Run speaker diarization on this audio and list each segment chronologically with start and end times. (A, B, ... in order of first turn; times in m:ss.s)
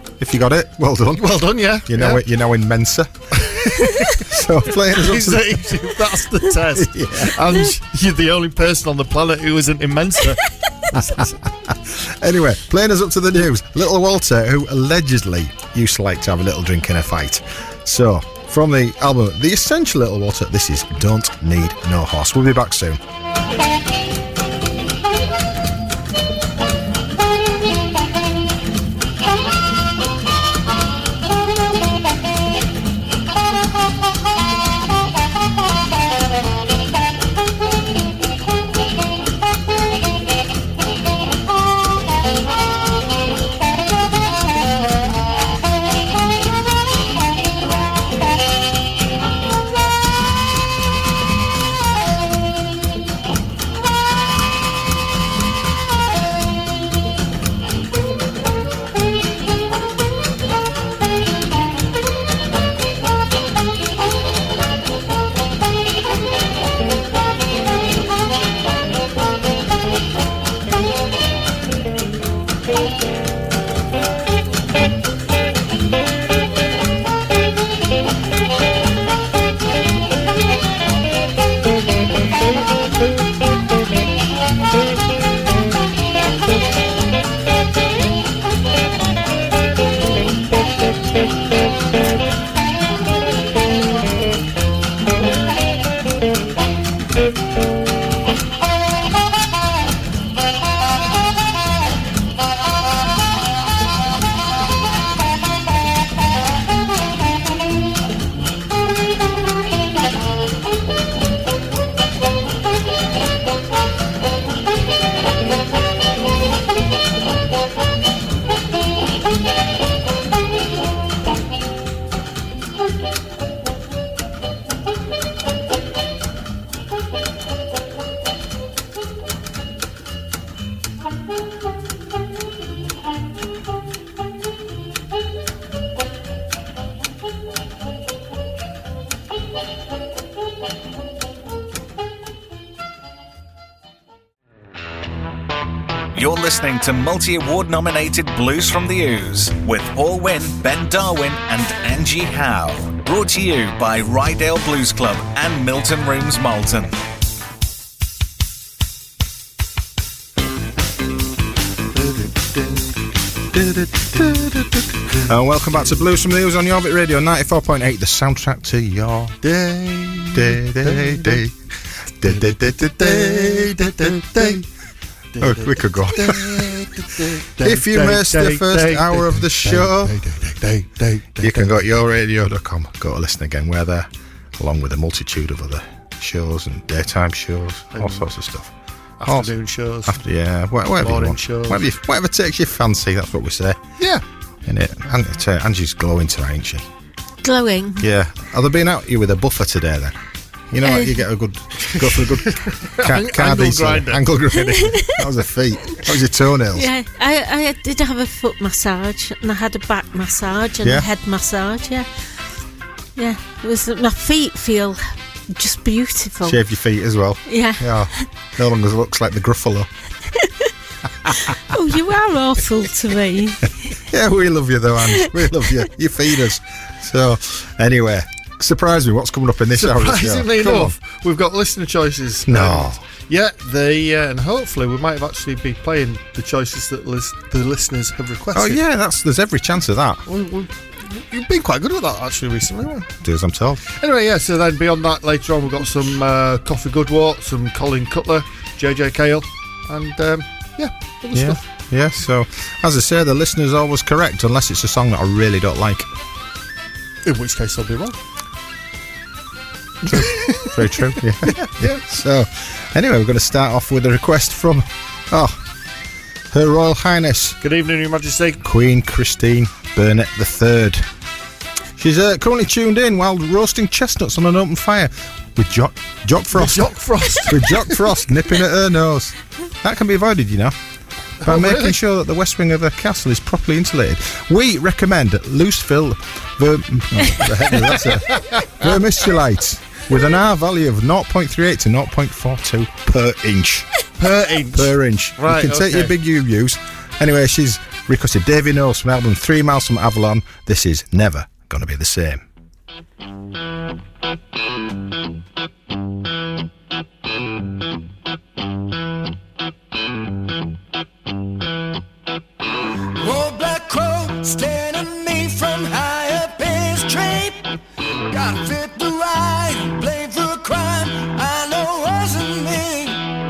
0:00.2-0:03.1 A
0:01.2-0:02.2 B
0:03.4-0:11.3 B
0:03.6-0:05.8 A
0:06.8-0:07.4 A
0:11.0-0:23.0 A
2:26.1-2:36.9 C
2:42.0-2:42.9 B
2:43.5-2:49.4 A
2:49.4-2:51.4 B
2:50.4-2:51.6 A
2:52.2-2:54.7 A
2:52.3-2:54.6 B
2:55.3-3:01.8 B
2:55.4-2:56.7 A
2:57.6-3:00.1 A
3:01.4-3:08.7 A
3:07.9-3:08.3 B
3:09.2-3:10.2 B
3:09.3-3:09.5 A
3:10.0-3:13.8 A
3:11.0-3:11.8 B
3:14.7-3:16.8 A
3:17.4-3:18.1 D
3:18.0-3:20.2 A
3:20.7-3:26.9 A
3:20.8-3:21.2 D
3:22.5-3:24.3 B
3:26.8-3:32.1 D
3:30.8-3:31.1 A
3:33.2-3:36.6 D
3:36.4-3:39.9 A
3:37.5-3:38.3 D
3:41.3-3:41.6 A
3:41.7-3:43.7 D
3:44.1-3:50.9 A
3:49.8-3:58.8 B
3:52.5-3:53.0 A
3:58.5-4:00.2 A
4:00.3-4:03.1 B
4:03.2-4:03.8 A
4:04.0-4:11.6 B
4:11.3-4:16.1 A
4:17.2-4:18.2 B
4:20.0-4:22.0 B
4:20.1-4:25.6 A
4:26.5-4:27.6 A
4:27.6-4:28.6 B
4:28.6-4:31.1 A
4:32.0-4:40.8 A
4:36.5-4:38.1 B
4:41.4-4:42.0 B
4:41.4-4:54.0 A
4:47.5-4:48.9 B
4:54.2-4:56.1 B
4:54.7-5:02.4 A
5:15.2-5:17.1 E
5:18.4-5:19.0 E
5:20.2-5:20.9 E